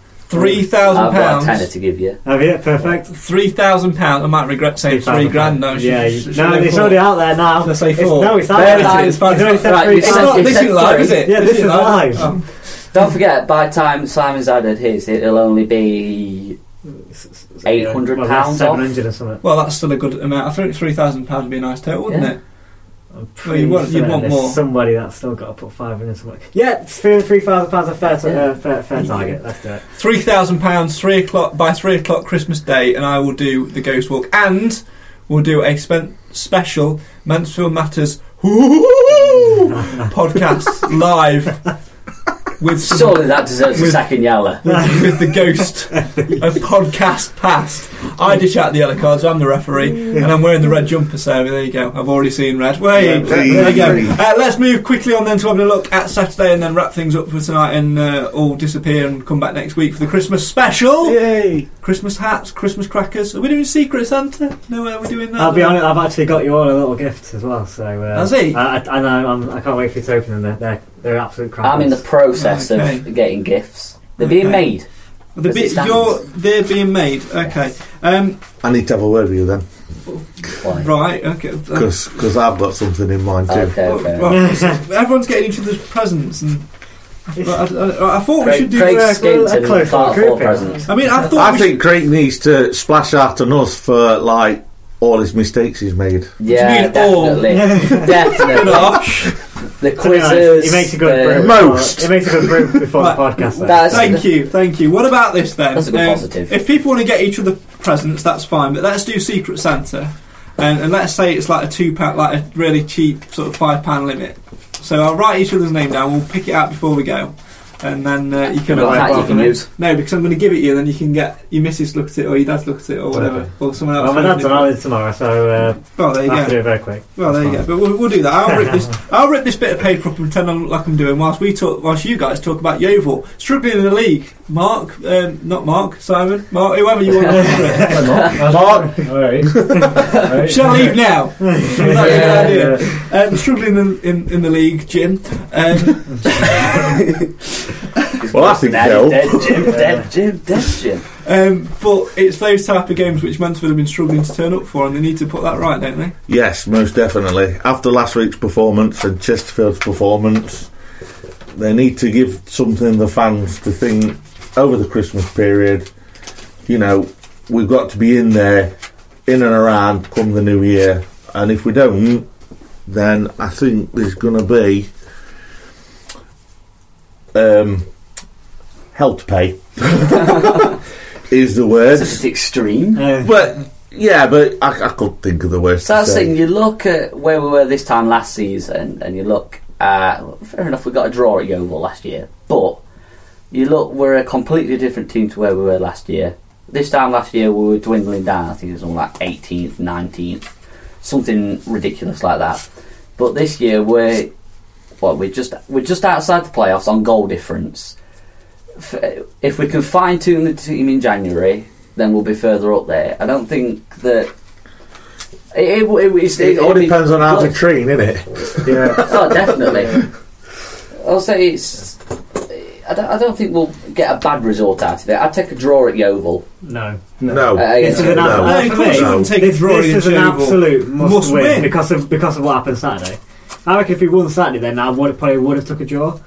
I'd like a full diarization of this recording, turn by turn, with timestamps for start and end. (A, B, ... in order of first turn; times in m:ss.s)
0:00.3-0:01.7 A
0:00.8-0:02.2 B
0:02.2-0:03.1 C
0:02.9-0:12.6 A
0:04.9-0:12.3 C
0:07.9-0:08.4 D
0:08.5-0:11.2 B
0:12.8-0:16.6 B
0:17.1-0:19.4 C
0:17.6-0:18.9 B
0:19.4-0:22.4 A
0:23.1-0:29.8 C
0:23.4-0:24.6 A
0:29.9-0:41.7 A
0:42.6-0:44.1 A
0:42.8-0:44.9 B
0:44.6-1:01.2 A
0:53.2-0:54.2 E
0:53.3-0:54.0 C
1:01.0-1:01.7 E
1:01.8-1:05.9 A
1:05.4-1:12.0 C
1:08.1-1:08.6 A
1:11.6-1:14.9 B
1:12.3-1:13.1 A
1:14.2-1:14.7 A
1:15.3-1:18.4 A
1:15.4-1:16.2 B
1:18.6-1:19.6 E
1:20.1-1:21.9 A
1:20.6-1:20.9 B
1:21.7-1:23.8 E
1:23.5-1:24.4 B
1:23.8-1:26.7 A
1:24.3-1:24.8 C
1:27.4-1:29.2 A
1:28.4-1:30.9 B
1:28.7-1:30.9 C
1:30.9-1:31.8 A
1:31.3-1:36.3 E
1:36.4-1:39.1 B
1:36.4-1:39.4 A
1:37.5-1:38.1 C
1:39.8-1:41.6 B
1:40.0-1:43.9 C
1:41.3-1:42.8 E
1:43.0-2:04.7 A
1:43.7-1:44.3 B
1:45.7-1:46.5 B
1:58.6-1:59.7 B
1:58.7-1:59.6 C
2:04.0-2:07.0 C
2:06.0-2:18.3 A
2:17.8-2:21.0 D
2:18.4-2:20.0 E
2:20.4-2:26.9 A
2:21.5-2:22.0 C
2:21.8-2:23.0 D
2:22.0-2:22.7 B
2:28.2-2:31.1 B
2:28.3-2:29.7 E
2:31.2-2:36.1 A
2:36.3-2:40.7 E
2:41.5-2:45.9 E
2:46.7-2:48.7 E
2:49.2-2:52.3 E
2:52.9-2:54.9 E
2:57.3-2:57.9 E
2:58.9-3:00.7 E
3:00.2-3:00.7 B
3:01.3-3:02.2 E
3:01.9-3:03.1 B
3:03.0-3:03.3 C
3:03.2-3:06.3 E
3:05.8-3:12.8 B
3:13.5-3:20.4 B
3:21.0-3:22.6 B
3:23.2-3:24.3 B
3:25.0-3:28.0 B
3:28.8-3:34.3 B
3:35.5-3:37.6 B
3:36.4-3:40.0 E
3:38.6-3:40.0 D
3:39.0-3:40.0 B
3:41.0-3:46.4 B
3:46.6-3:47.0 C
3:47.2-3:47.6 D
3:47.3-3:49.3 E
3:47.5-3:48.5 B
3:47.5-3:56.2 C
3:48.4-3:51.8 A